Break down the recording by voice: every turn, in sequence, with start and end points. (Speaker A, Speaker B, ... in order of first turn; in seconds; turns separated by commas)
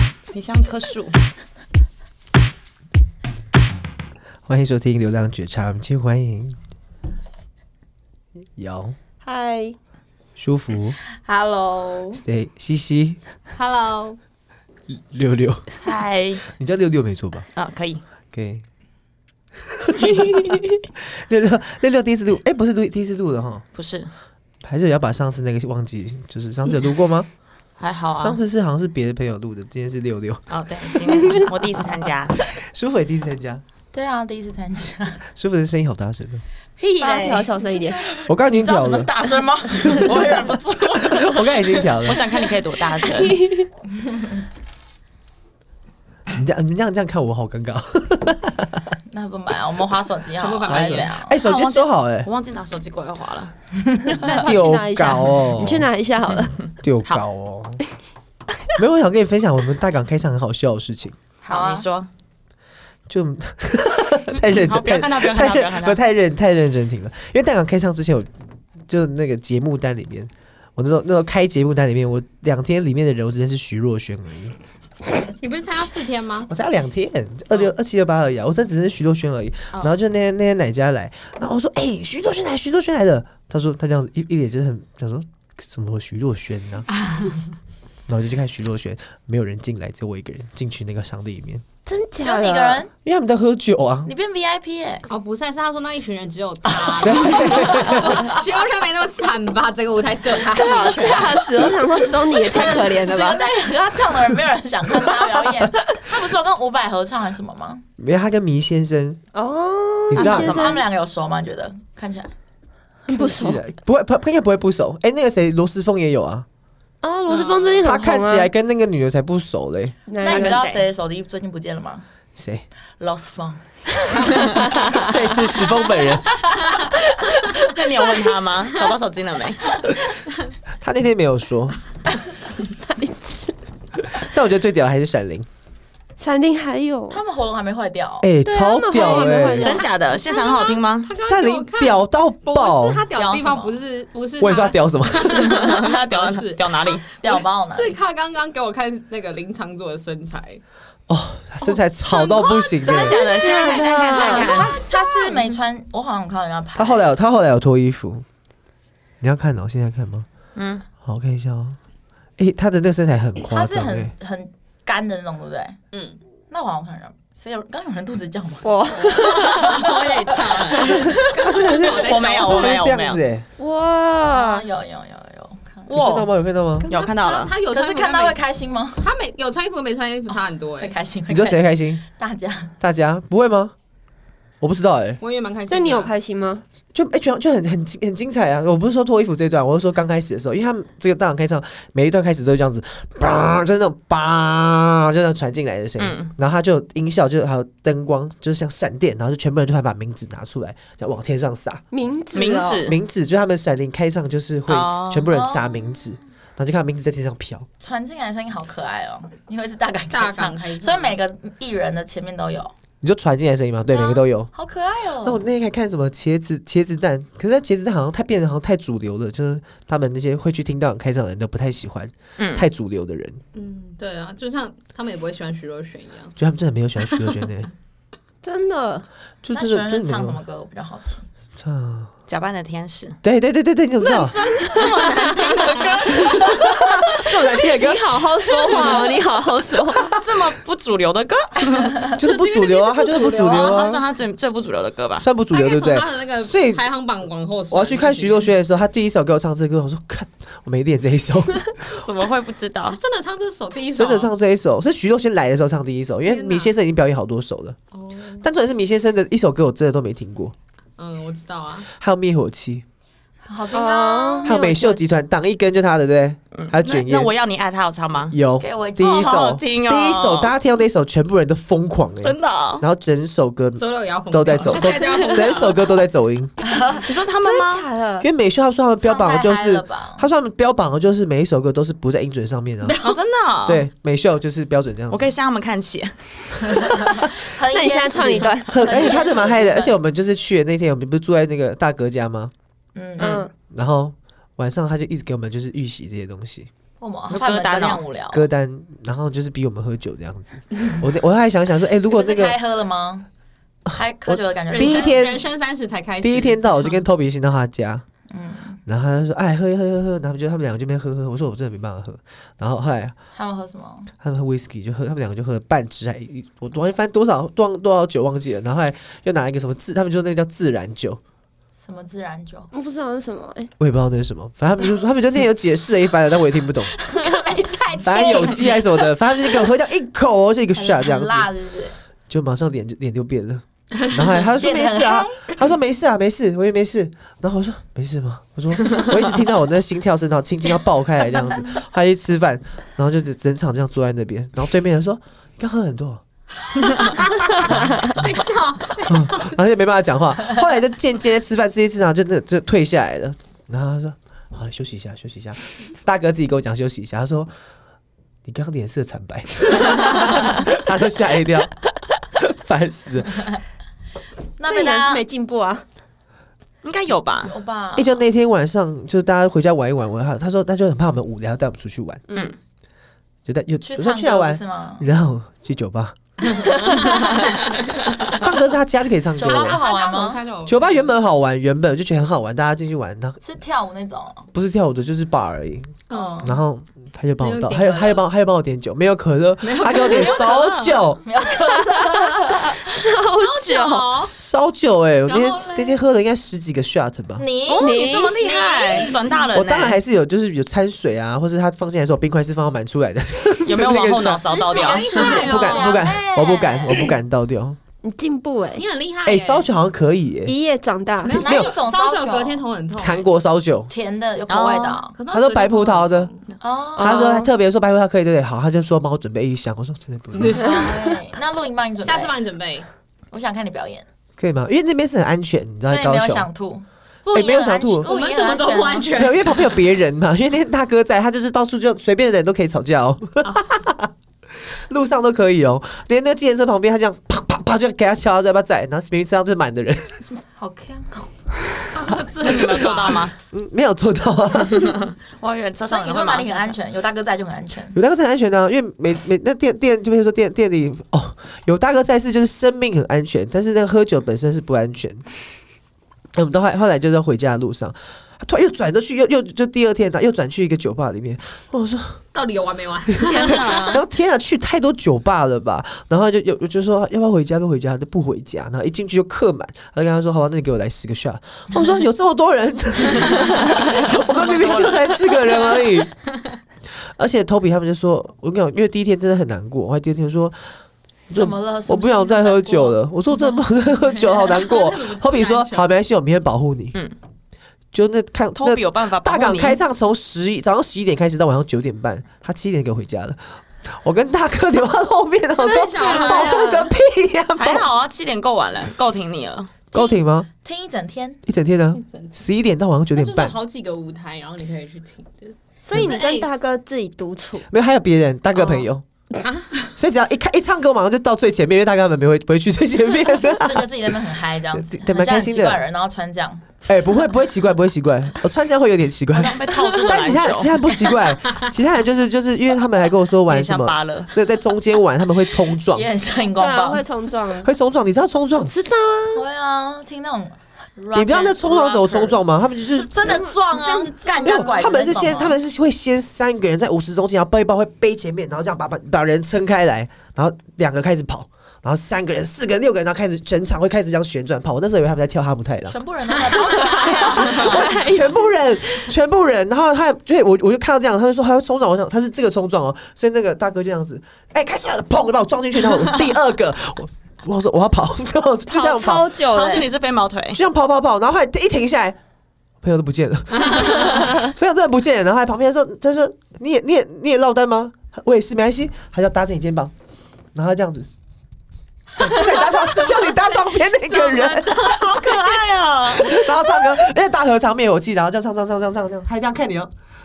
Speaker A: 0.3-1.2, Speaker B: 4.5-6.6, Speaker B: 8.6-8.9, Speaker C: 9.2-9.8, Speaker B: 10.4-11.0, Speaker D: 11.2-12.2, Speaker B: 12.1-13.2, Speaker E: 13.5-14.2, Speaker B: 14.9-15.6, Speaker A: 15.8-16.4, Speaker B: 16.4-17.5, Speaker A: 17.5-18.0, Speaker B: 18.3-18.6, Speaker B: 19.8-20.6, Speaker B: 21.1-23.6, Speaker A: 23.7-24.1, Speaker B: 24.6-27.3, Speaker A: 27.8-28.4, Speaker B: 28.2-30.4, Speaker A: 30.5-32.4, Speaker B: 32.5-33.6, Speaker D: 33.9-35.2, Speaker B: 35.3-36.4, Speaker D: 36.8-41.4, Speaker C: 37.0-38.1, Speaker B: 38.3-39.1, Speaker B: 39.8-40.2, Speaker A: 39.9-41.3, Speaker B: 41.1-42.2, Speaker A: 42.0-43.4, Speaker C: 43.1-43.7, Speaker D: 44.0-44.4, Speaker B: 46.3-48.8, Speaker D: 49.1-51.4, Speaker E: 50.4-51.1, Speaker B: 50.7-52.3, Speaker A: 51.4-53.5, Speaker D: 53.9-54.2, Speaker C: 54.2-56.5, Speaker B: 54.3-55.9, Speaker B: 56.8-57.8, Speaker B: 58.8-61.2, Speaker D: 61.4-61.9, Speaker A: 61.5-62.1, Speaker B: 63.1-68.3, Speaker A: 64.5-66.0, Speaker B: 68.9-74.5, Speaker E: 75.4-76.5, Speaker B: 76.5-86.9, Speaker B: 88.1-91.6, Speaker C: 91.9-92.8, Speaker D: 92.2-92.9, Speaker B: 93.0-94.1, Speaker D: 94.0-95.1, Speaker E: 95.1-101.7, Speaker B: 97.0-98.2, Speaker C: 100.5-103.5, Speaker D: 102.4-107.8, Speaker B: 108.0-109.2, Speaker C: 109.3-110.8, Speaker B: 110.1-110.8, Speaker D: 110.1-112.3, Speaker C: 113.1-113.6, Speaker B: 113.1-116.5, Speaker C: 117.0-118.5, Speaker D: 117.3-117.7, Speaker B: 117.8-120.0, Speaker C: 120.1-120.6, Speaker D: 120.2-122.0, Speaker A: 120.2-120.9, Speaker B: 122.4-122.6, Speaker D: 123.0-124.5, Speaker B: 124.9-126.4, Speaker A: 127.6-129.6, Speaker B: 130.8-131.8, Speaker C: 132.9-133.5, Speaker B: 134.2-135.4, Speaker C: 136.2-137.2, Speaker D: 137.1-138.3, Speaker B: 138.2-139.8, Speaker C: 138.4-139.9, Speaker A: 139.4-141.1, Speaker E: 139.5-150.6, Speaker B: 141.1-143.1, Speaker D: 143.1-143.8, Speaker B: 144.4-145.7, Speaker A: 145.4-147.0, Speaker D: 147.2-148.0, Speaker B: 151.1-153.2, Speaker E: 151.6-155.6, Speaker A: 152.8-154.8, Speaker C: 153.3-154.4, Speaker D: 154.1-157.1, Speaker B: 156.7-158.2, Speaker B: 159.2-160.2, Speaker A: 160.6-160.8, Speaker B: 161.0-161.8, Speaker B: 162.4-164.1, Speaker D: 163.4-165.8, Speaker E: 165.9-166.2, Speaker D: 166.5-170.9, Speaker C: 168.6-169.8, Speaker E: 169.0-172.8, Speaker B: 170.8-173.4, Speaker A: 171.7-173.2, Speaker C: 173.6-174.7, Speaker D: 174.3-176.0, Speaker A: 175.9-176.3, Speaker B: 175.9-176.9, Speaker E: 176.8-178.4, Speaker A: 176.9-177.5, Speaker D: 177.7-179.1, Speaker E: 179.0-181.0, Speaker D: 180.8-182.7, Speaker B: 181.3-182.0, Speaker B: 182.8-183.7, Speaker B: 184.6-185.2, Speaker E: 185.2-186.1, Speaker C: 185.7-186.6, Speaker B: 186.9-201.8, Speaker A: 196.0-196.3, Speaker C: 201.9-202.9, Speaker A: 202.3-203.0, Speaker B: 202.8-207.7, Speaker A: 204.7-205.3, Speaker D: 205.3-206.1, Speaker D: 207.8-212.7, Speaker E: 210.1-211.2, Speaker B: 213.0-214.5, Speaker D: 213.9-215.4, Speaker B: 215.2-223.4, Speaker A: 222.4-222.7, Speaker E: 223.5-226.3, Speaker B: 226.4-227.7, Speaker E: 227.0-227.3, Speaker C: 228.4-229.1, Speaker B: 229.4-230.4, Speaker D: 229.5-231.2, Speaker B: 231.6-232.1, Speaker A: 232.3-233.2, Speaker B: 233.2-234.3, Speaker A: 234.0-236.8, Speaker B: 236.4-238.0, Speaker C: 237.2-240.1, Speaker A: 238.6-239.2, Speaker A: 240.0-242.1, Speaker B: 242.1-244.0, Speaker E: 242.2-243.9, Speaker A: 243.4-245.3, Speaker B: 245.2-246.8, Speaker E: 245.5-248.5, Speaker B: 247.7-252.0, Speaker A: 251.9-253.0, Speaker E: 252.8-254.3, Speaker B: 253.9-257.8, Speaker E: 256.2-256.7, Speaker E: 257.9-258.5, Speaker B: 258.4-260.5, Speaker E: 261.0-261.9, Speaker B: 261.9-262.8, Speaker D: 263.4-264.9, Speaker C: 263.7-265.0, Speaker B: 264.4-267.3, Speaker A: 266.6-268.3, Speaker B: 268.3-276.5, Speaker D: 268.6-269.3, Speaker A: 269.0-270.5, Speaker A: 272.2-272.8, Speaker E: 273.8-276.1, Speaker D: 276.6-277.0, Speaker A: 277.1-277.9, Speaker C: 277.4-278.3, Speaker B: 278.2-283.0, Speaker D: 279.0-280.3, Speaker E: 282.8-283.2, Speaker A: 283.0-283.9, Speaker B: 283.6-285.3, Speaker A: 285.1-286.9, Speaker D: 286.8-289.9, Speaker C: 287.6-289.2, Speaker B: 288.7-292.5, Speaker D: 292.9-293.5, Speaker A: 293.2-293.4, Speaker C: 293.2-293.5, Speaker B: 293.7-296.7, Speaker D: 297.0-298.5, Speaker A: 297.3-298.0, Speaker B: 298.3-302.6, Speaker D: 302.1-303.3, Speaker D: 303.9-305.2, Speaker B: 304.2-305.4, Speaker E: 304.7-307.0, Speaker B: 306.2-308.0, Speaker D: 308.3-308.8, Speaker B: 308.9-313.1, Speaker D: 313.3-314.1, Speaker B: 314.2-321.2, Speaker D: 321.8-322.7, Speaker C: 322.7-323.7, Speaker B: 323.8-326.9, Speaker D: 326.9-329.0, Speaker B: 328.0-331.5, Speaker D: 330.8-331.9, Speaker B: 332.3-346.2, Speaker D: 334.6-335.5, Speaker E: 346.8-349.6, Speaker B: 349.0-357.5, Speaker B: 358.4-361.8, Speaker B: 362.3-363.5, Speaker D: 364.6-365.1, Speaker C: 364.6-365.8, Speaker A: 366.8-367.5, Speaker D: 367.4-368.2, Speaker B: 367.9-372.2, Speaker B: 373.4-376.1, Speaker D: 373.8-375.1, Speaker E: 376.4-378.0, Speaker B: 378.4-379.8, Speaker D: 379.3-380.4, Speaker E: 379.4-381.1, Speaker B: 380.6-383.4, Speaker D: 383.4-384.5, Speaker B: 384.5-391.2, Speaker E: 386.1-386.6, Speaker D: 386.1-386.4, Speaker E: 387.4-388.2, Speaker E: 389.6-390.5, Speaker A: 389.9-391.1, Speaker D: 391.2-392.9, Speaker C: 392.1-394.2, Speaker E: 393.3-394.3, Speaker B: 394.3-397.4, Speaker E: 395.2-396.0, Speaker D: 397.4-399.1, Speaker A: 397.7-400.0, Speaker C: 397.8-398.4, Speaker B: 399.5-404.6, Speaker A: 403.6-405.5, Speaker E: 404.5-406.1, Speaker D: 404.6-407.2, Speaker B: 405.1-407.8, Speaker C: 408.0-408.9, Speaker E: 408.8-409.7, Speaker B: 409.2-410.6, Speaker C: 410.4-411.4, Speaker E: 411.2-413.3, Speaker D: 411.4-412.6, Speaker B: 411.4-411.8, Speaker B: 413.0-413.9, Speaker D: 413.9-415.2, Speaker A: 414.5-415.0, Speaker E: 415.1-416.4, Speaker B: 415.3-416.3, Speaker D: 416.6-417.4, Speaker B: 417.0-420.6, Speaker A: 417.0-417.4, Speaker E: 420.4-421.2, Speaker D: 420.5-422.4, Speaker E: 422.0-422.9, Speaker D: 423.3-424.1, Speaker B: 424.4-426.5, Speaker D: 425.8-429.2, Speaker B: 427.3-428.1, Speaker E: 428.0-429.8, Speaker B: 429.1-434.1, Speaker E: 433.4-433.7, Speaker B: 434.6-440.2, Speaker D: 440.5-441.3, Speaker E: 441.9-443.3, Speaker A: 442.4-443.3, Speaker B: 443.5-445.1, Speaker A: 444.7-446.8, Speaker D: 445.8-448.0, Speaker B: 447.9-455.2, Speaker B: 456.3-462.2, Speaker E: 462.3-463.9, Speaker B: 463.1-476.1, Speaker A: 463.3-464.0, Speaker A: 474.0-475.5, Speaker E: 475.5-476.1, Speaker B: 477.1-480.8, Speaker D: 481.3-483.0, Speaker B: 481.3-487.0, Speaker E: 483.3-485.9, Speaker B: 487.9-497.9, Speaker A: 488.6-489.8, Speaker E: 495.6-496.5, Speaker C: 495.9-496.9, Speaker A: 497.6-499.7, Speaker B: 499.9-500.5, Speaker D: 499.9-501.4, Speaker B: 501.4-503.6, Speaker E: 502.0-502.4, Speaker E: 503.1-506.5, Speaker C: 505.8-507.6, Speaker B: 507.7-509.0, Speaker E: 509.4-509.9, Speaker B: 509.9-514.0, Speaker D: 513.5-516.7, Speaker B: 514.7-515.8, Speaker B: 516.9-526.1, Speaker A: 519.3-520.7, Speaker C: 519.8-520.2, Speaker A: 523.5-524.3, Speaker D: 525.9-527.0, Speaker C: 526.5-527.7, Speaker B: 527.6-528.7, Speaker C: 528.6-529.4, Speaker D: 529.3-535.6, Speaker B: 531.1-533.3, Speaker C: 533.3-534.9, Speaker B: 534.5-546.0, Speaker D: 545.9-547.8, Speaker C: 546.7-549.1, Speaker A: 547.0-547.8, Speaker B: 547.5-559.3, Speaker C: 558.7-559.9, Speaker A: 559.5-560.6, Speaker B: 560.5-562.2, Speaker B: 562.8-569.9, Speaker B: 570.5-571.1, Speaker B: 572.2-575.0, Speaker E: 572.2-573.2, Speaker D: 574.3-575.3, Speaker A: 574.7-576.5, Speaker B: 576.1-579.9